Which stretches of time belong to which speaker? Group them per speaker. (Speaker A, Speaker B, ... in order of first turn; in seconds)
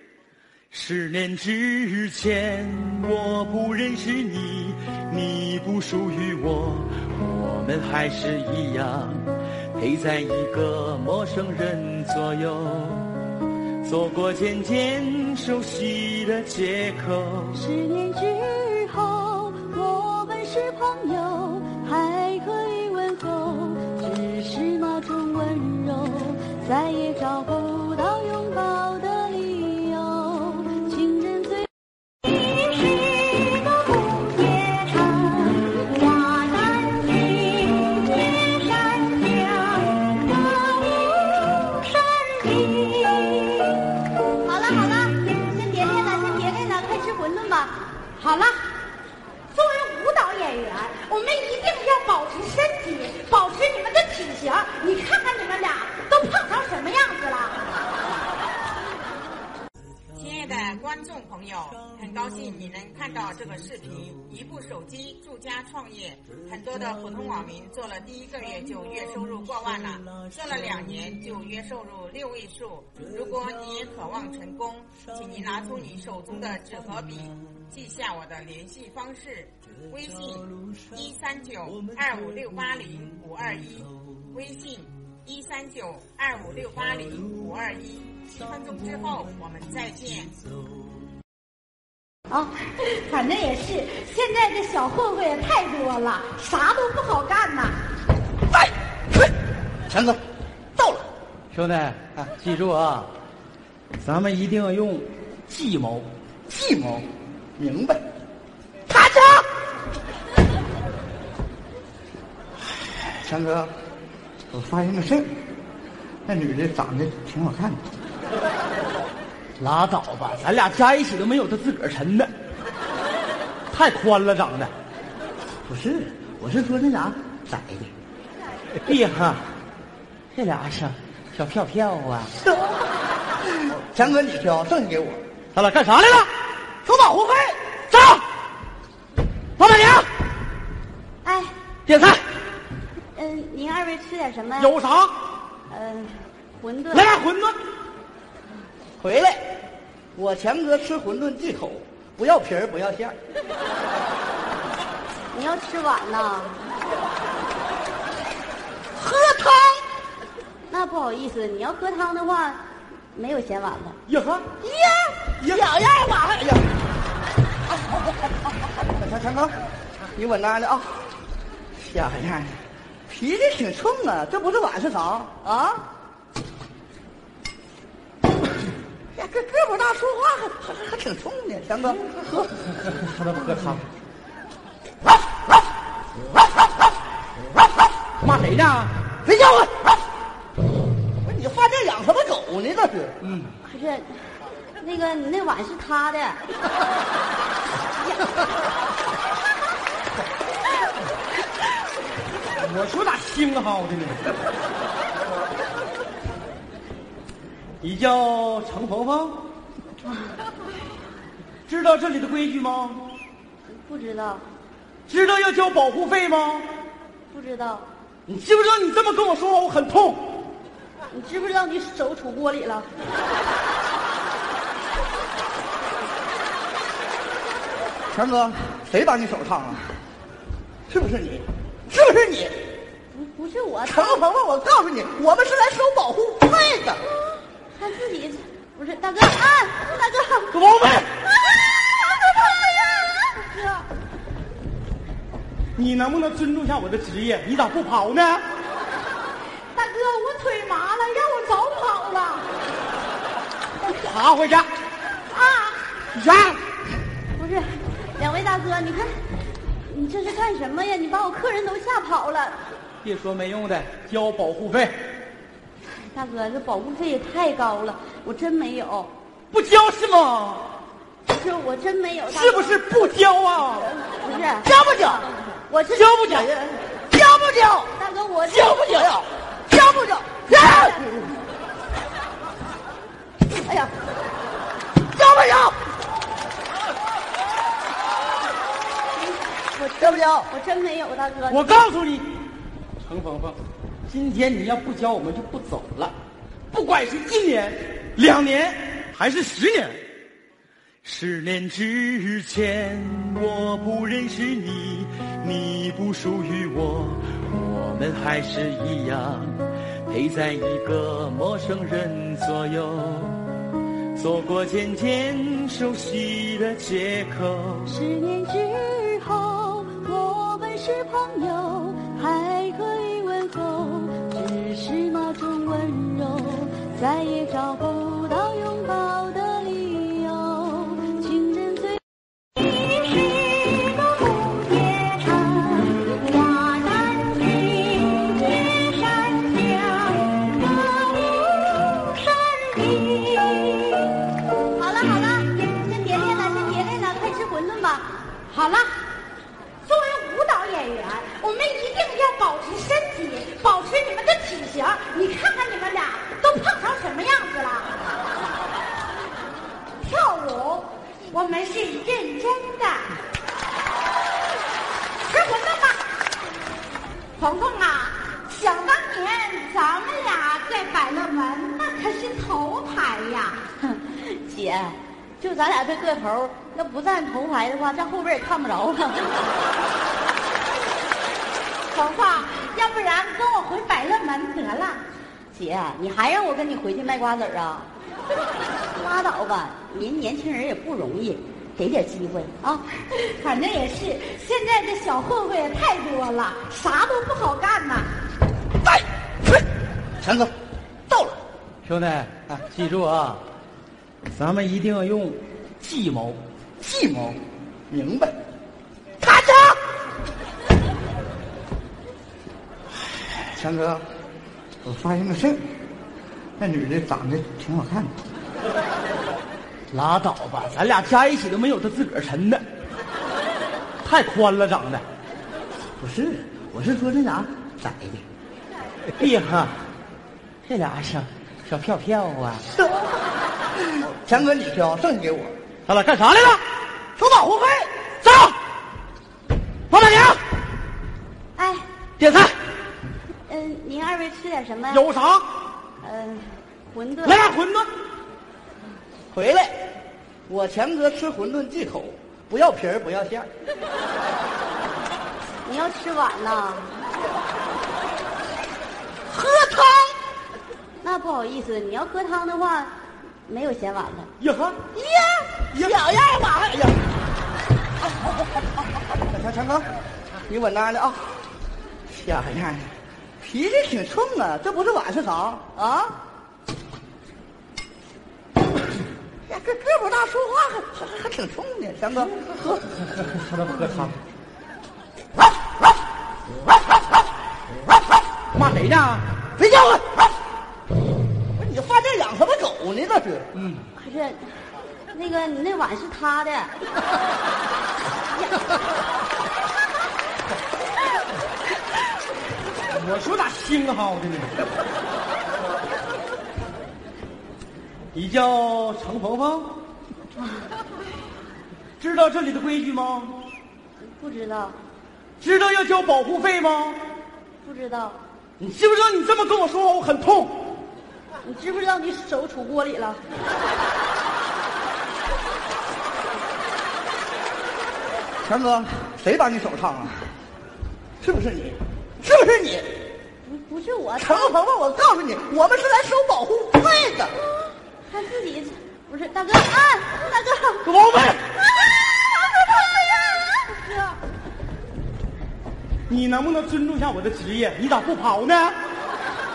Speaker A: 0.7-13.1, 13.8-17.6, 101.5-103.1, 104.0-106.1, 108.9-109.2, 119.6-122.3, 123.7-124.7, 128.8-129.4, 130.3-132.4, 135.5-136.3, 137.9-138.2, 139.6-140.1, 141.9-142.2, 144.6-145.2, 146.9-147.6, 164.1-164.5, 182.9-183.8, 188.2-189.3, 193.3-193.5, 202.6-204.2, 207.8-209.4, 211.7-213.1, 215.1-216.7, 218.3-220.3, 240.5-241.1, 245.8-248.4, 253.8-254.7, 256.1-256.6, 263.0-264.9, 269.5-270.7, 272.3-273.9, 276.0-276.4, 291.5-292.4, 293.0-296.1, 296.7-300.0, 301.0-313.4, 314.1-317.9, 401.8-403.4, 404.3-406.4, 419.9-422.6, 424.0-425.0, 429.1-429.8, 430.6-432.7, 435.9-436.6, 438.2-438.6, 439.9-440.4, 442.2-442.6, 444.9-445.5, 447.2-447.9, 464.4-464.7, 483.4-484.1, 488.5-489.3, 493.6-493.9, 502.9-504.6, 508.1-509.8, 512.0-513.4, 515.4-517.0, 518.6-520.7, 540.9-541.4, 546.1-548.8
Speaker B: 17.5-31.7, 32.3-43.8, 44.4-47.8, 52.0-52.3, 53.1-53.5, 54.3-56.1, 93.2-94.2, 141.2-141.5, 143.2-144.8, 145.7-147.2, 155.3-156.6, 160.7-162.6, 163.1-164.0, 193.6-194.2, 194.8-196.4, 198.0-198.4, 213.7-214.5, 217.3-217.9, 221.1-222.9, 233.1-234.2, 237.7-240.6, 243.1-243.8, 257.4-259.1, 259.7-262.6, 266.0-269.1, 271.3-272.9, 273.8-274.7, 275.7-276.5, 277.9-279.1, 280.5-281.4, 289.1-291.8, 317.9-332.0, 332.6-344.1, 344.8-348.1, 373.8-379.5, 385.5-387.9, 388.9-392.9, 441.6-441.8, 443.5-445.1, 446.0-447.5, 455.6-456.9, 461.0-462.9, 463.5-464.3, 493.9-494.5, 495.1-496.7, 498.3-498.8, 514.0-514.8, 517.6-518.2, 521.4-523.2, 533.4-534.5, 538.0-540.9, 541.8-544.2
Speaker C: 48.2-48.5, 49.5-57.5, 93.1-97.7, 249.8-252.4, 348.5-348.8, 349.9-357.9, 360.1-362.9, 365.3-365.9, 367.4-373.5, 381.9-385.0, 393.4-398.0
Speaker D: 60.1-90.4
Speaker E: 99.9-100.2, 100.8-101.0, 106.5-108.0, 113.1-113.7, 114.5-115.3, 116.3-117.8, 125.7-127.9, 133.6-135.2, 136.9-137.6, 149.0-149.5, 150.2-153.2, 159.0-159.8, 164.5-166.6, 169.0-169.6, 170.2-170.9, 171.8-175.8, 179.2-182.2, 189.4-189.6, 191.2-193.2, 228.1-230.0, 230.9-232.6, 233.9-237.0, 274.7-275.2, 276.9-277.9, 279.0-280.5, 285.1-285.8, 290.0-290.5, 400.2-400.5, 401.1-401.4, 406.8-407.4, 407.9-408.3, 413.5-414.1, 414.8-415.6, 416.6-418.1, 426.0-428.2, 433.9-435.5, 437.2-437.9, 449.3-449.8, 450.5-453.5, 459.3-460.2, 464.8-466.9, 469.3-469.9, 470.5-471.2, 472.1-476.1, 479.5-482.8, 489.6-490.1, 491.6-493.5, 528.4-530.3, 531.2-532.9, 534.2-537.3